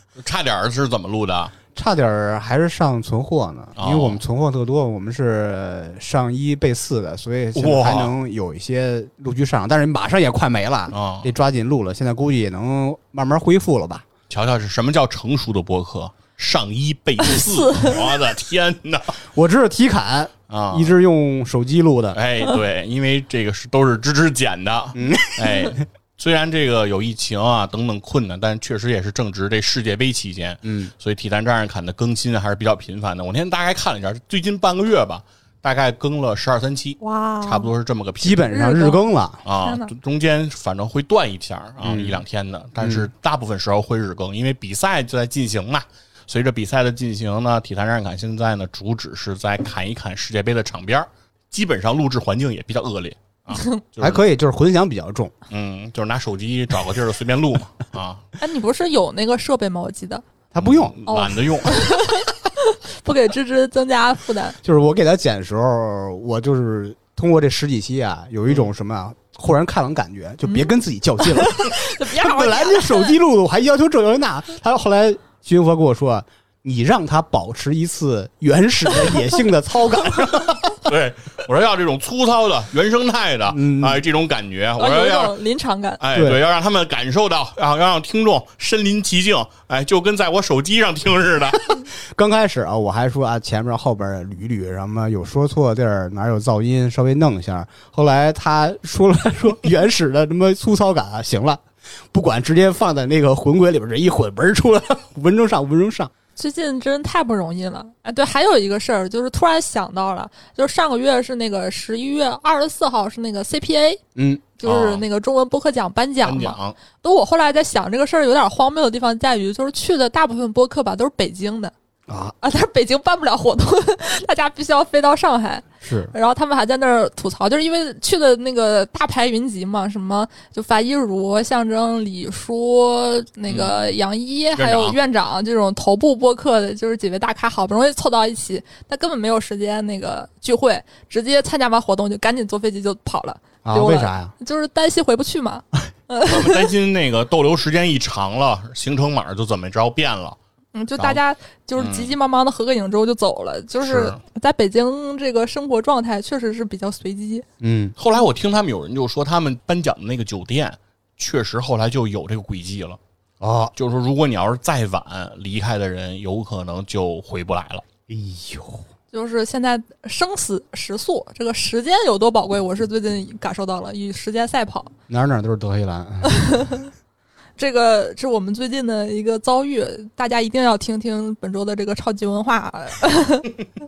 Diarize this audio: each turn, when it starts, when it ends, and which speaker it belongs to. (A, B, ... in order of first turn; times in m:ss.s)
0:00.2-0:01.5 A
0:01.7-0:14.0 B
0:03.8-0:04.2 A
0:07.5-0:08.1 A
0:10.9-0:11.3 A
0:14.3-0:19.2 A
0:17.2-0:18.0 C
0:19.3-0:22.2 B
0:20.5-0:20.9 A
0:22.1-0:38.6 A
0:24.9-0:25.8 B
0:30.6-0:30.9 B
0:37.0-0:37.7 C
0:38.2-0:39.4 B
0:38.5-0:39.0 C
0:39.4-0:54.2 A
0:39.6-0:39.9 C
0:41.8-0:42.2 B
0:42.8-0:43.1 B
0:54.0-0:55.3 B
0:55.5-0:58.2 A
0:58.4-1:00.2 C
1:00.5-1:01.0 B
1:00.6-1:02.1 A
1:01.0-1:04.6 C
1:04.6-1:20.8 B
1:10.4-1:10.7 C
1:11.2-1:13.1 C
1:20.7-1:25.4 A
1:23.5-1:24.0 B
1:24.8-1:26.0 C
1:26.0-1:31.8 A
1:26.1-1:26.4 B
1:32.1-1:46.1 B
1:46.4-1:54.0 C
1:54.2-1:54.4 B
1:54.6-2:01.7 C
1:54.6-1:55.0 A
1:56.2-1:56.8 A
2:02.1-2:02.3 B
2:02.4-2:26.6 C
2:05.8-2:06.1 B
2:13.5-2:13.8 A
2:14.6-2:15.0 A
2:23.6-2:24.3 B
2:26.2-2:30.4 A
2:30.7-2:37.4 C
2:31.8-2:32.1 A
2:33.8-2:34.2 A
2:37.6-2:37.9 B
2:38.0-2:43.0 A
2:43.4-2:43.7 B
2:43.8-2:47.8 A
2:48.1-2:48.8 B
2:49.1-2:54.9 C
2:55.1-2:56.6 B
2:56.2-2:56.8 C
2:57.6-3:03.6 C